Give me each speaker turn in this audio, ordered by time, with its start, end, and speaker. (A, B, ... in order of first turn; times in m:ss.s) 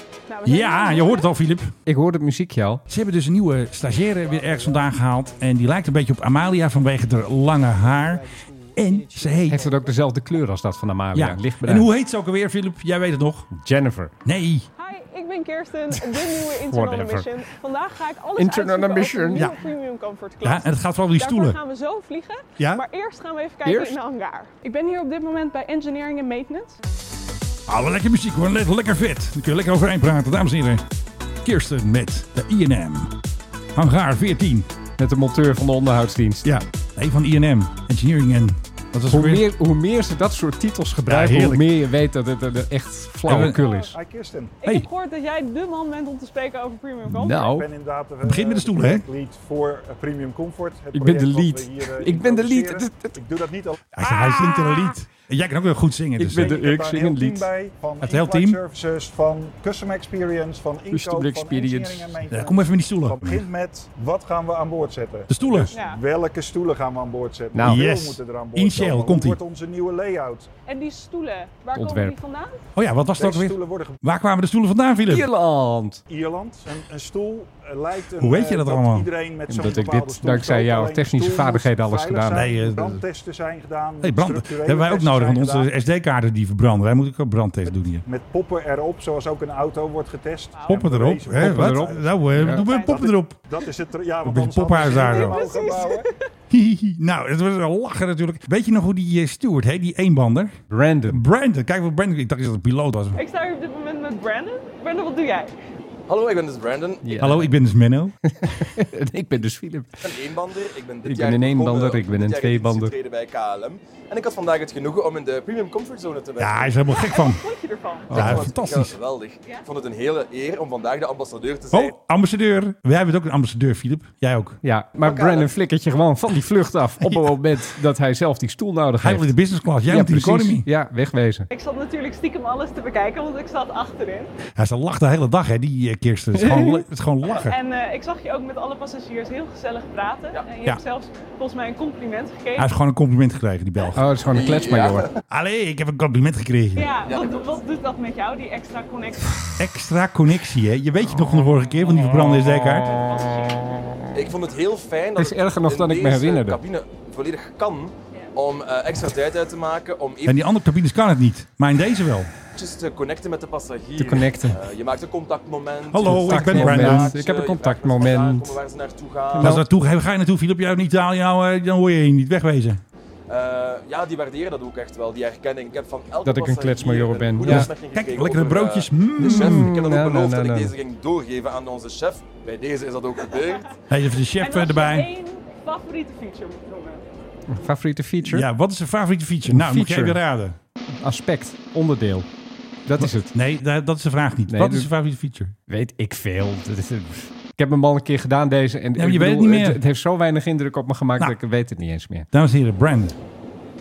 0:00.3-0:01.3 A
0:00.4-0:01.7 B
0:01.9-0:02.8 C
0:02.9-0:09.7 B
0:09.5-0:11.9 C
0:11.1-0:13.5 B
0:13.5-0:14.1 C
0:14.2-0:14.7 B
0:14.8-0:26.8 A
0:16.2-0:17.3 C
0:18.4-0:19.5 C
0:19.4-0:19.6 B
0:20.4-0:21.6 B
0:22.6-0:22.8 B
0:23.6-0:24.0 C
0:27.7-0:30.8 B
0:31.4-0:33.1 B
0:33.8-0:34.7 B
0:35.0-0:36.5 C
0:36.4-0:39.5 B
0:39.1-0:43.9 C
0:41.1-0:41.7 B
0:43.3-0:43.6 B
0:43.5-0:43.9 A
0:43.8-0:44.6 D
0:44.6-0:47.4 A
0:47.1-0:47.7 C
0:47.3-0:53.8 D
0:48.2-0:49.0 B
0:50.9-0:53.2 C
0:53.9-0:56.6 B
0:54.1-0:54.9 C
0:56.2-0:57.5 C
0:56.3-1:10.5 D
0:58.0-0:58.6 B
1:00.9-1:02.2 C
1:02.3-1:03.5 B
1:05.3-1:05.7 B
1:05.7-1:06.0 A
1:07.5-1:07.8 C
1:07.6-1:09.4 B
1:10.7-1:12.6 A
1:11.7-1:12.2 C
1:12.8-1:15.3 B
1:13.2-1:14.0 D
1:15.1-1:16.0 C
1:16.1-1:25.7 D
1:18.2-1:19.1 B
1:19.5-1:22.5 C
1:22.3-1:23.0 B
1:24.0-1:28.0 B
1:28.0-1:36.1 D
1:30.6-1:30.9 A
1:30.7-1:33.4 B
1:31.4-1:32.6 C
1:32.6-1:33.1 A
1:34.2-1:35.5 B
1:34.8-1:36.2 A
1:36.5-1:40.6 B
1:40.7-1:41.2 C
1:41.1-1:43.2 B
1:43.2-1:45.5 A
1:46.1-1:47.1 E
1:47.0-1:47.5 C
1:47.2-1:48.2 B
1:48.2-1:50.1 C
1:50.0-1:56.8 E
1:51.0-1:52.9 C
1:56.4-1:57.5 B
1:56.9-1:58.2 A
1:58.1-1:59.0 B
1:58.1-2:01.9 E
1:58.1-1:58.4 C
2:01.7-2:04.6 B
2:04.6-2:09.3 C
2:05.0-2:05.5 E
2:07.0-2:07.3 B
2:09.0-2:10.7 B
2:09.9-2:11.5 C
2:11.5-2:14.3 A
2:14.5-2:17.6 B
2:16.4-2:16.8 C
2:17.4-2:22.7 A
2:22.6-2:24.0 B
2:23.9-2:25.1 C
2:24.3-2:25.2 E
2:25.3-2:26.9 B
2:26.8-2:29.5 A
2:27.1-2:27.5 E
2:29.6-2:33.0 B
2:32.4-2:34.1 C
2:33.0-2:33.6 A
2:34.1-2:40.4 E
2:35.2-2:36.6 C
2:40.2-2:42.3 B
2:42.6-2:49.6 E
2:44.0-2:44.6 C
2:45.9-2:47.2 B
2:46.0-2:48.6 C
2:49.4-2:49.6 C
2:49.4-2:52.8 B
2:53.3-3:03.7 E
2:56.2-2:57.7 C
2:57.4-2:59.7 B
2:59.2-3:00.7 C
3:03.9-3:05.1 B
3:04.4-3:07.1 A
3:07.5-3:08.5 C
3:08.2-3:10.6 B
3:09.5-3:10.2 C
3:11.0-3:12.3 C
3:12.9-3:13.3 C
3:13.0-3:15.6 B
3:14.5-3:14.9 C
3:15.7-3:22.3 C
3:19.0-3:19.8 B
3:22.3-3:23.2 B